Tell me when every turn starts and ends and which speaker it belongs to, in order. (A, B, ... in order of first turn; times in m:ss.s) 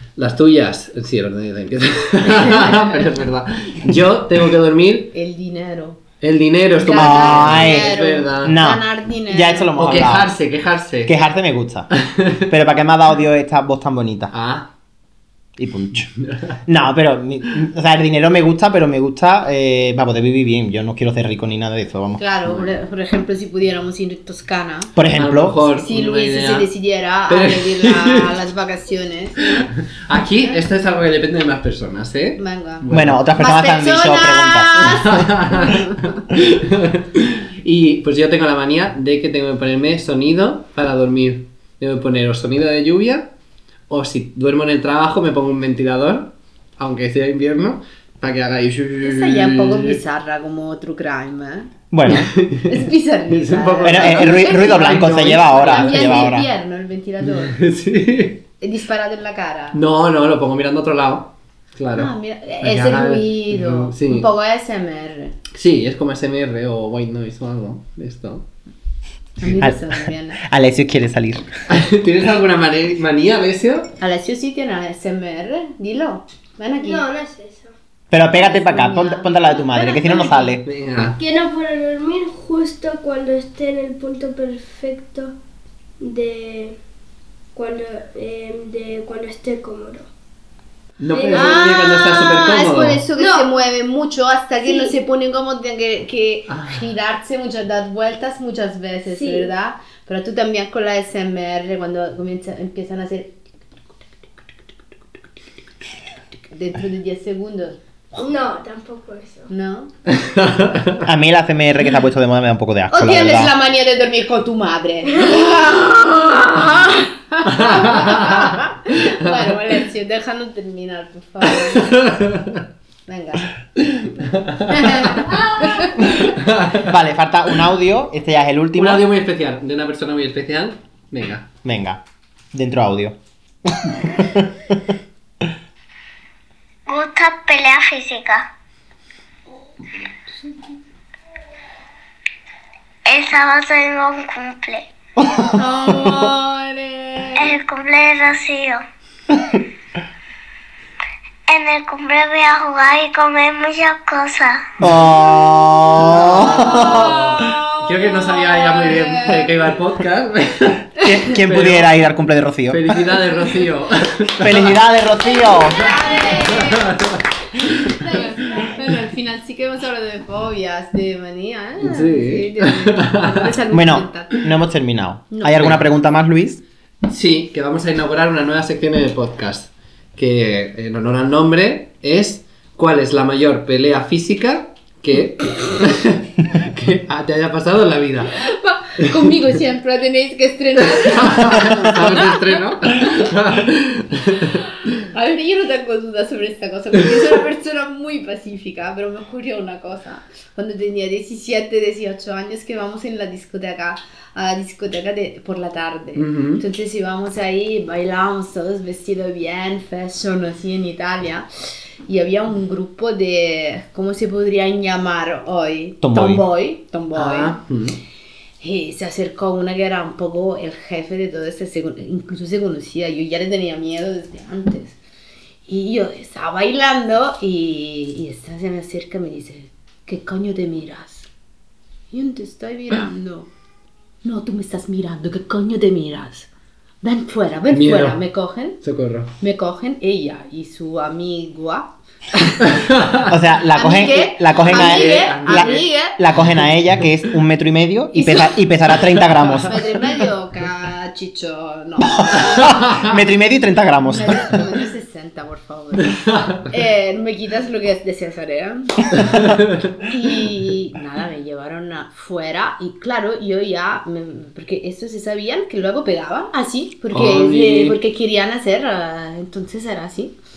0:00.2-0:05.1 A
0:05.1-0:06.0 B
0:06.2-0:08.6 A
0:06.8-0:09.7 B
0:07.0-0:10.3 C
0:09.8-0:11.1 A
0:11.0-0:14.3 C
0:12.0-0:12.5 A
0:14.3-0:14.7 A
0:15.6-0:16.1 C
0:16.2-0:16.5 A
0:16.6-0:22.2 C
0:22.2-0:24.9 B
0:25.0-0:25.6 C
0:25.1-0:26.7 A
0:25.8-0:29.7 B
0:27.3-0:28.4 A
0:29.9-0:33.2 A
0:32.4-0:32.8 B
0:32.9-0:35.2 C
0:33.4-0:36.1 B
0:34.8-0:43.3 A
0:43.9-0:50.0 A
0:49.0-0:51.7 B
0:51.9-0:52.3 C
0:52.1-0:56.4 A
0:52.6-0:57.6 B
0:53.8-0:56.5 C
0:57.2-0:58.4 A
0:58.6-0:59.8 B
0:59.7-1:02.1 A
1:02.0-1:05.4 B
1:02.6-1:04.3 A
1:05.5-1:08.4 A
1:09.4-1:10.4 B
1:09.5-1:11.5 C
1:11.7-1:13.9 A
1:14.0-1:17.0 B
1:16.8-1:17.7 D
1:18.1-1:20.6 C
1:18.3-1:19.3 B
1:19.7-1:20.5 D
1:20.6-1:21.2 A
1:21.2-1:25.4 D
1:26.0-1:26.8 D
1:27.5-1:30.1 D
1:31.0-1:33.0 A
1:31.1-1:31.7 D
1:31.3-1:43.3 B
1:33.2-1:33.5 D
1:34.6-1:34.9 D
1:36.5-1:36.8 A
1:39.1-1:39.5 D
1:46.5-1:48.3 B
1:48.2-1:49.5 D
1:49.5-1:49.9 B
1:50.1-1:51.0 A
1:51.0-1:53.5 C
1:52.9-2:02.0 B
1:55.1-1:55.4 D
1:57.5-1:58.6 A
2:01.8-2:02.6 A
2:03.1-2:03.5 B
2:04.2-2:05.1 A
2:04.6-2:06.1 B
2:06.2-2:06.9 A
2:06.7-2:09.1 C
2:08.8-2:11.5 A
2:11.6-2:12.0 C
2:12.5-2:13.2 C
2:13.7-2:14.5 C
2:16.9-2:18.3 D
2:16.9-2:18.4 E
2:23.1-2:24.8 E
2:23.1-2:24.6 D
2:25.5-2:27.5 B
2:27.4-2:28.8 E
2:27.4-2:28.1 D
2:31.5-2:34.6 E
2:34.8-2:37.3 C
2:36.0-2:42.0 A
2:36.4-2:39.6 B
2:41.0-2:43.2 C
2:42.7-2:44.8 A
2:44.4-2:45.9 C
2:45.5-2:46.5 D
2:45.7-2:47.0 B
2:46.4-2:47.2 A
2:47.8-2:54.4 B
2:51.8-2:53.5 A
2:53.7-2:56.6 C
2:55.3-2:55.7 B
2:57.0-3:08.4 A
3:08.4-3:12.9 B
3:10.9-3:14.6 A
3:15.1-3:31.5 B
3:26.2-3:26.6 A
3:32.1-3:37.6 B
3:36.0-3:36.4 C
3:37.1-3:38.0 A
3:38.6-3:45.0 B
3:45.7-3:51.3 B
3:52.1-3:53.5 B
3:54.2-3:56.5 B
3:57.0-3:58.8 B
3:57.7-3:58.2 A
3:58.8-3:59.3 A
3:59.4-4:01.9 B
4:02.9-4:03.3 A
4:03.2-4:09.8 C
4:03.7-4:06.2 B
4:04.6-4:05.9 A
4:08.1-4:08.5 B
4:09.6-4:13.0 B
4:12.8-4:14.5 C
4:14.0-4:30.3 B
4:16.1-4:16.6 A
4:27.1-4:28.0 A